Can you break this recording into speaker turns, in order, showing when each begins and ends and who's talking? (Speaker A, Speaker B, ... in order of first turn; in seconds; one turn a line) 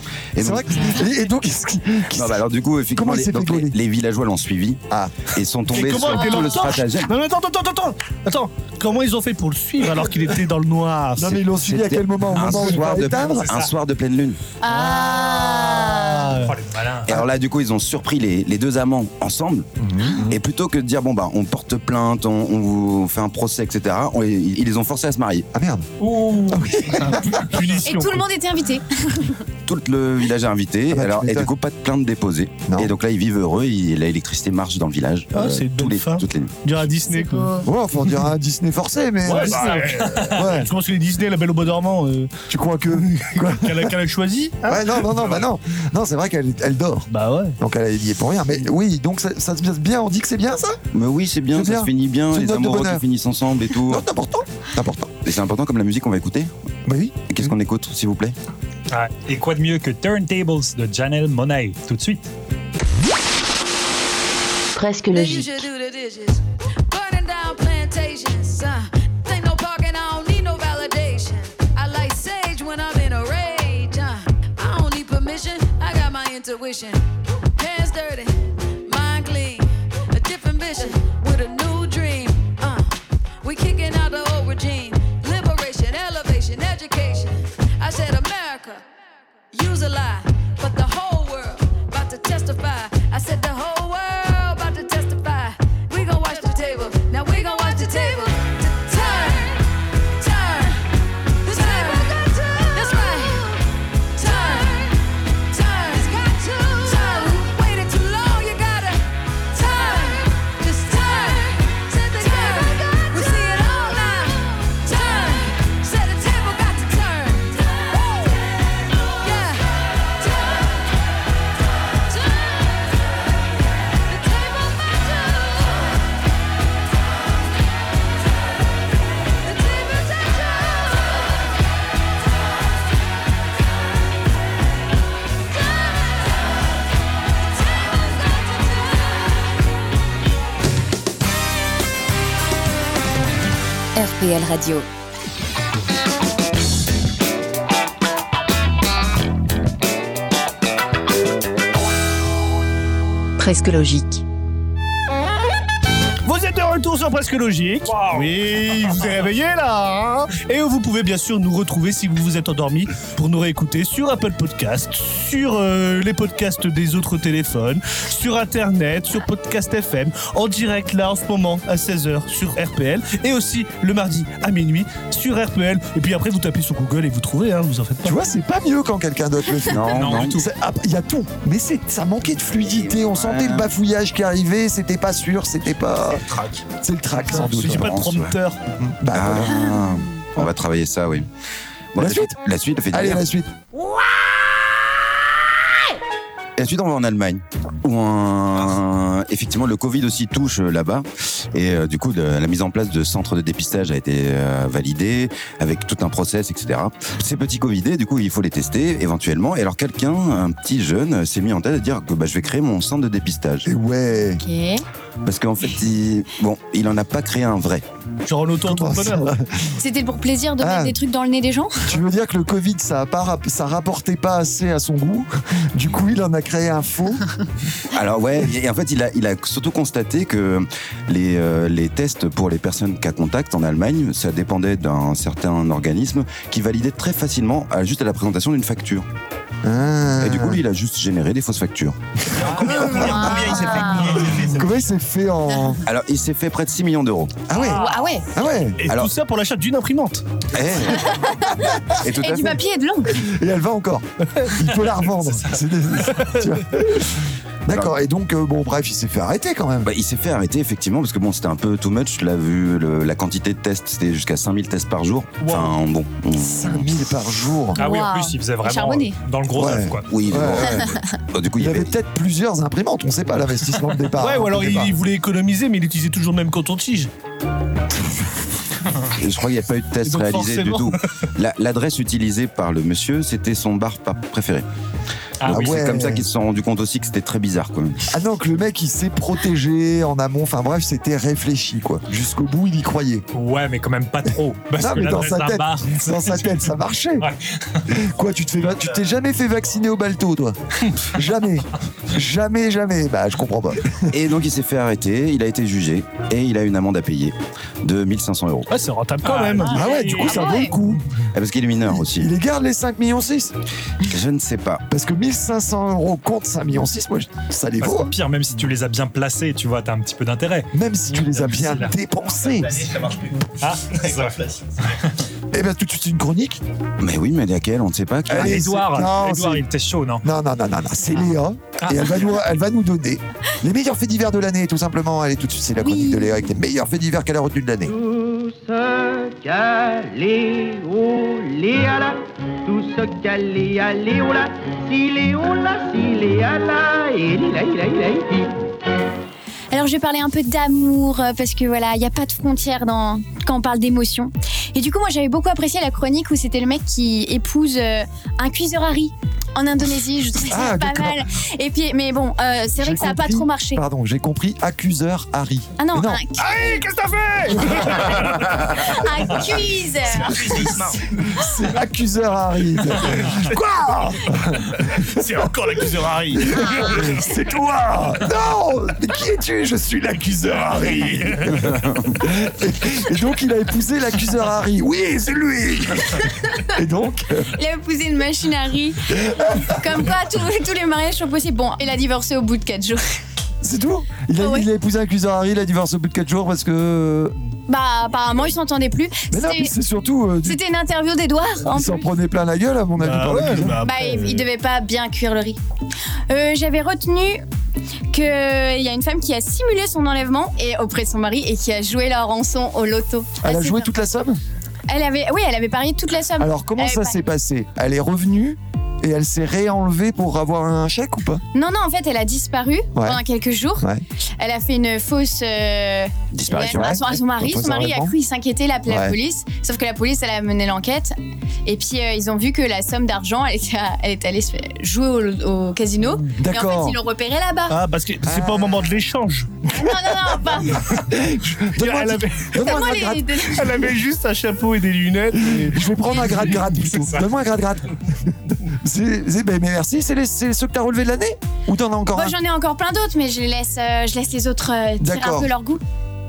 Speaker A: 0.3-1.0
Speaker B: 0.4-2.4
Speaker A: 2.1-7.1
Speaker B: 2.9-3.8
Speaker B: 4.9-5.3
Speaker C: 5.7-13.3
Speaker D: 6.1-6.5
Speaker B: 11.2-13.5
Speaker A: 12.3-14.4
Speaker D: 14.6-16.3
Speaker C: 14.7-16.6
Speaker E: 16.4-17.1
Speaker A: 17.1-19.7
Speaker B: 19.8-20.3
Speaker A: 20.2-25.5
Speaker B: 25.5-25.9
Speaker E: 26.0-26.8
Speaker B: 26.5-27.5
Speaker C: 27.0-28.3
Speaker D: 27.8-29.4
Speaker A: 29.7-36.6
Speaker B: 30.9-31.5
Speaker B: 32.7-32.9
Speaker C: 35.3-37.7
Speaker B: 37.6-40.7
Speaker C: 39.2-42.3
Speaker E: 39.4-40.5
Speaker B: 42.5-43.9
Speaker C: 43.0-45.0
Speaker B: 44.7-47.1
Speaker C: 47.1-47.6
Speaker B: 47.6-50.8
Speaker A: 50.9-54.1
Speaker B: 51.5-53.0
Speaker B: 53.8-55.1
Speaker A: 55.2-56.5
Speaker B: 56.9-57.5
Speaker A: 57.3-58.4
Speaker E: 58.9-62.3
Speaker F: 64.7-65.7
Speaker G: 65.1-77.1
Speaker G: 77.6-88.8
Speaker G: 89.5-99.6
Speaker G: 100.2-100.8
Speaker G: 101.5-103.6
Speaker G: 104.2-118.3
Speaker G: 119.1-120.8
Speaker G: 122.1-122.9
Speaker G: 124.1-125.9
Speaker G: 129.4-131.2
Speaker G: 137.8-139.4
Speaker F: 143.9-144.9
Speaker F: 153.4-154.2
Speaker C: 156.3-178.2
Speaker E: 157.8-158.3
Speaker B: 178.0-186.2
Speaker A: 179.7-180.4
Speaker E: 179.9-180.4
Speaker A: 182.7-183.7
Speaker H: 186.1-186.7
Speaker B: 186.8-188.0
Speaker C: 187.3-188.6
Speaker A: 187.4-188.3
Speaker B: 188.8-189.6
Speaker A: 189.1-191.3
Speaker A: 191.9-193.2
Speaker B: 192.0-192.4
Speaker B: 192.9-193.5
Speaker A: 196.6-213.7
Speaker B: 213.7-214.4
Speaker D: 214.4-214.8
Speaker A: 215.2-217.8
Speaker C: 218.3-219.3
Speaker B: 218.7-219.8
Speaker D: 219.8-221.9
Speaker B: 220.6-221.0
Speaker B: 221.9-227.2
Speaker A: 227.9-239.1
Speaker B: 239.6-240.6
Speaker A: 240.2-242.0
Speaker H: 242.3-244.8
Speaker D: 243.0-244.2
Speaker B: 244.3-245.8
Speaker A: 245.8-247.4
Speaker B: 247.5-248.8
Speaker E: 247.5-248.0
Speaker D: 247.6-248.2
Speaker C: 248.8-250.2
Speaker A: 248.9-249.1
Speaker A: 250.5-251.2
Speaker D: 251.0-253.2
Speaker A: 252.0-252.6
Speaker B: 253.1-259.9
Speaker C: 256.1-256.5
Speaker A: 257.7-257.9
Speaker A: 259.8-267.1
Speaker E: 265.4-265.8
Speaker B: 266.4-267.8
Speaker D: 267.8-269.2
Speaker E: 267.8-270.1
Speaker B: 269.5-270.7
Speaker A: 270.1-271.9
Speaker D: 270.6-271.1
Speaker B: 271.6-274.9
Speaker C: 274.2-277.1
Speaker A: 279.2-284.6
Speaker C: 280.0-281.0
Speaker E: 285.4-285.8
Speaker A: 285.5-288.0
Speaker B: 285.5-286.3
Speaker B: 288.1-293.2
Speaker E: 293.3-296.6
Speaker B: 294.8-297.3
Speaker E: 297.2-297.8
Speaker B: 297.9-304.1
Speaker H: 298.8-299.1
Speaker A: 304.1-308.7
Speaker C: 308.7-309.8
Speaker E: 309.2-310.6
Speaker D: 309.6-310.7
Speaker B: 309.7-311.0
Speaker A: 311.3-312.3
Speaker B: 312.0-313.6
Speaker A: 314.0-314.8
Speaker B: 314.9-318.1
Speaker E: 317.8-321.9
Speaker B: 320.7-322.7
Speaker H: 322.4-324.8
Speaker E: 323.6-324.4
Speaker B: 325.5-326.6
Speaker A: 327.0-328.7
Speaker B: 328.3-329.6
Speaker E: 328.3-330.2
Speaker B: 330.2-338.0
Speaker E: 331.8-332.4
Speaker D: 335.8-336.4
Speaker H: 343.0-343.8
Speaker D: 349.7-363.8
Speaker B: 360.4-361.2
Speaker B: 362.8-366.2
Speaker D: 365.8-366.8
Speaker C: 366.4-368.4
Speaker D: 368.7-370.7
Speaker H: 370.1-371.1
Speaker B: 371.3-374.8
Speaker C: 374.9-377.1
Speaker B: 376.4-387.5
Speaker A: 381.6-382.2
Speaker D: 387.6-393.2
Speaker B: 389.3-389.8
Speaker B: 393.6-397.4
Speaker D: 394.4-394.7
Speaker D: 397.7-399.7
Speaker B: 399.3-400.6
Speaker D: 400.4-402.1
Speaker B: 401.7-403.8
Speaker C: 403.0-404.5
Speaker D: 403.8-405.6
Speaker D: 406.3-407.4
Speaker D: 408.1-413.9
Speaker B: 413.4-414.4
Speaker D: 414.9-417.2
Speaker B: 416.4-421.4
Speaker D: 421.5-423.9
Speaker B: 422.9-423.2
Speaker D: 424.4-431.1
Speaker A: 426.3-427.1
Speaker B: 426.7-428.1
Speaker B: 428.9-429.2
Speaker D: 431.6-437.8
Speaker B: 436.4-437.0
Speaker C: 437.7-439.6
Speaker B: 438.3-438.7
Speaker D: 439.7-440.9
Speaker B: 441.0-443.4
Speaker C: 441.8-445.9
Speaker D: 442.6-443.7
Speaker B: 445.5-452.4
Speaker E: 446.9-447.3
Speaker D: 452.1-455.8
Speaker B: 455.0-455.5